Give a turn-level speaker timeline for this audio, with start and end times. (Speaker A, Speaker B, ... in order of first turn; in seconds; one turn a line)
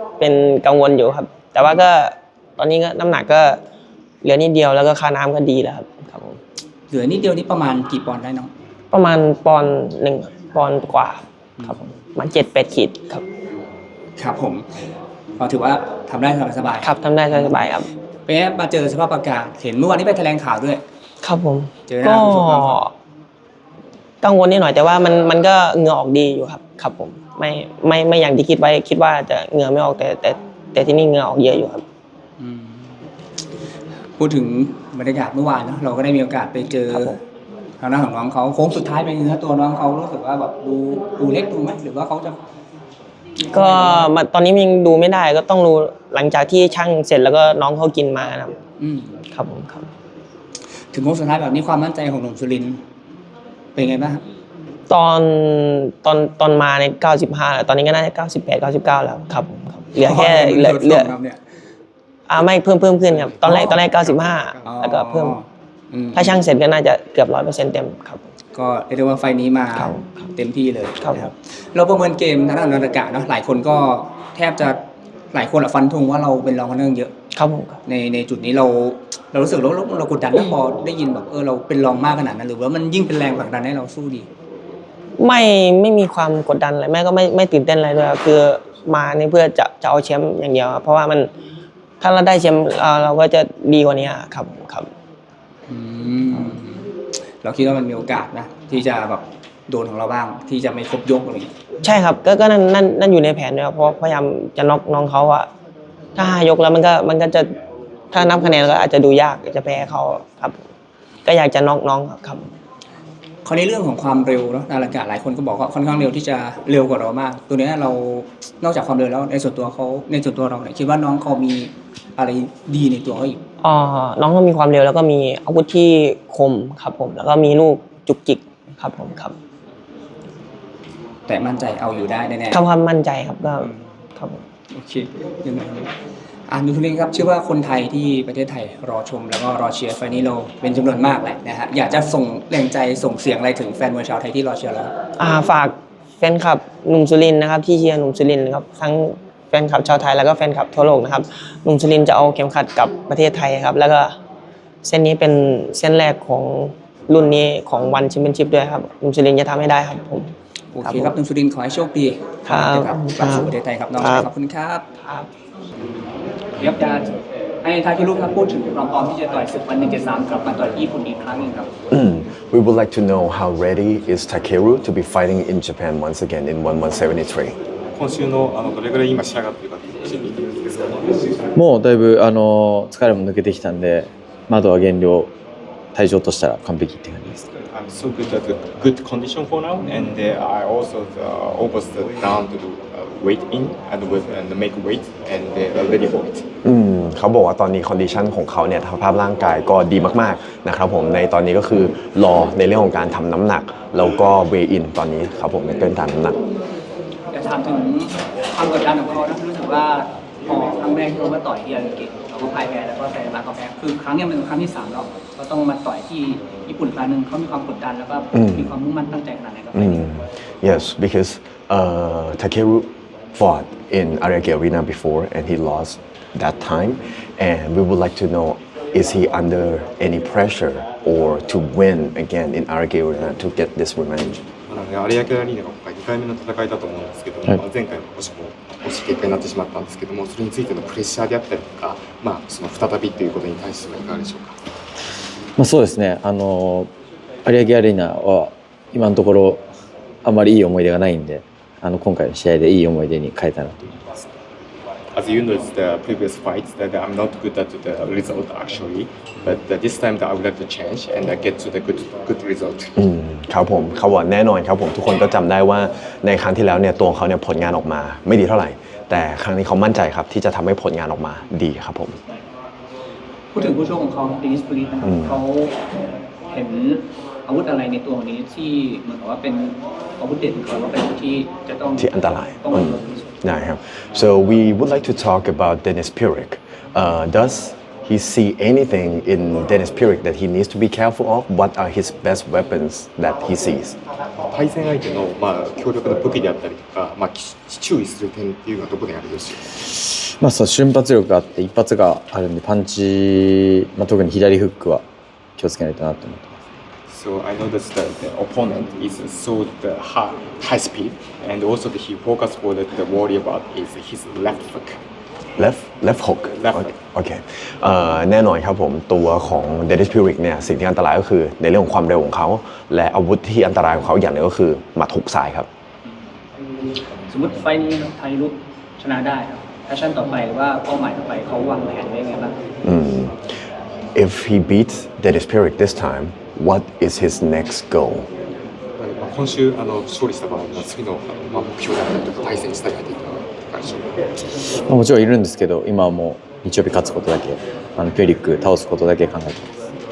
Speaker A: 0.2-3.6
Speaker A: 4.2-6.4
Speaker B: 6.9-8.5
Speaker A: 8.9-13.2
Speaker B: 14.2-14.6
Speaker B: 15.4-17.7
Speaker A: 16.8-17.9
Speaker B: 18.2-20.8
Speaker A: 21.2-22.9
Speaker B: 21.9-22.8
Speaker A: 24.2-31.8
Speaker B: 32.4-32.9
Speaker B: 34.2-37.1
Speaker A: 36.9-37.2
Speaker B: 37.8-42.4
Speaker A: 43.5-48.5
Speaker B: 43.5-44.0
Speaker B: 48.8-49.2
Speaker A: 49.3-49.9
Speaker B: 50.9-52.8
Speaker B: 53.7-54.2
Speaker A: 54.9-61.1
Speaker B: 60.0-61.4
Speaker A: 62.3-65.4
Speaker C: 63.2-64.7
Speaker B: 63.5-63.8
Speaker B: 64.6-66.4
Speaker A: 66.1-68.2
Speaker B: 68.5-74.8
Speaker A: 69.7-70.2
Speaker A: 71.0-71.3
Speaker B: 75.3-77.1
Speaker A: 77.3-77.8
Speaker B: 77.8-84.3
Speaker A: 85.2-91.3
Speaker A: 92.0-94.9
Speaker B: 95.7-96.8
Speaker B: 97.4-101.5
Speaker A: 101.8-105.5
Speaker A: 106.2-107.5
Speaker A: 108.1-110.5
Speaker A: 111.2-112.5
Speaker B: 113.4-123.4
Speaker A: 123.6-129.3
Speaker B: 131.3-132.6
Speaker A: 132.5-134.4
Speaker B: 134.7-135.9
Speaker B: 136.5-144.9
Speaker A: 145.2-154.1
Speaker A: 154.8-160.3
Speaker B: 160.7-164.8
Speaker A: 160.8-161.1
Speaker A: 162.4-164.3
Speaker A: 165.0-165.3
Speaker B: 166.6-167.1
Speaker B: 167.6-171.7
Speaker D: 171.9-177.6
Speaker C: 177.9-181.1
Speaker E: 181.6-185.3
Speaker E: 185.9-187.5
Speaker C: 187.7-196.5
Speaker D: 196.6-206.4
Speaker B: 207.3-220.0
Speaker D: 218.3-218.7
Speaker D: 219.7-234.4
Speaker C: 234.7-244.6
Speaker E: 245.6-246.9
Speaker E: 247.4-249.6
Speaker E: 250.2-253.9
Speaker C: 255.1-262.9
Speaker D: 263.0-272.2
Speaker B: 273.5-275.7
Speaker D: 275.0-275.3
Speaker B: 276.5-283.2
Speaker D: 282.0-294.0
Speaker C: 294.5-299.8
Speaker E: 299.9-305.0
Speaker E: 305.6-306.6
Speaker C: 307.1-315.0
Speaker D: 315.6-325.7
Speaker C: 316.6-316.9
Speaker B: 327.3-332.6
Speaker D: 332.8-333.4
Speaker D: 334.1-338.3
Speaker C: 339.0-344.2
Speaker E: 344.6-349.7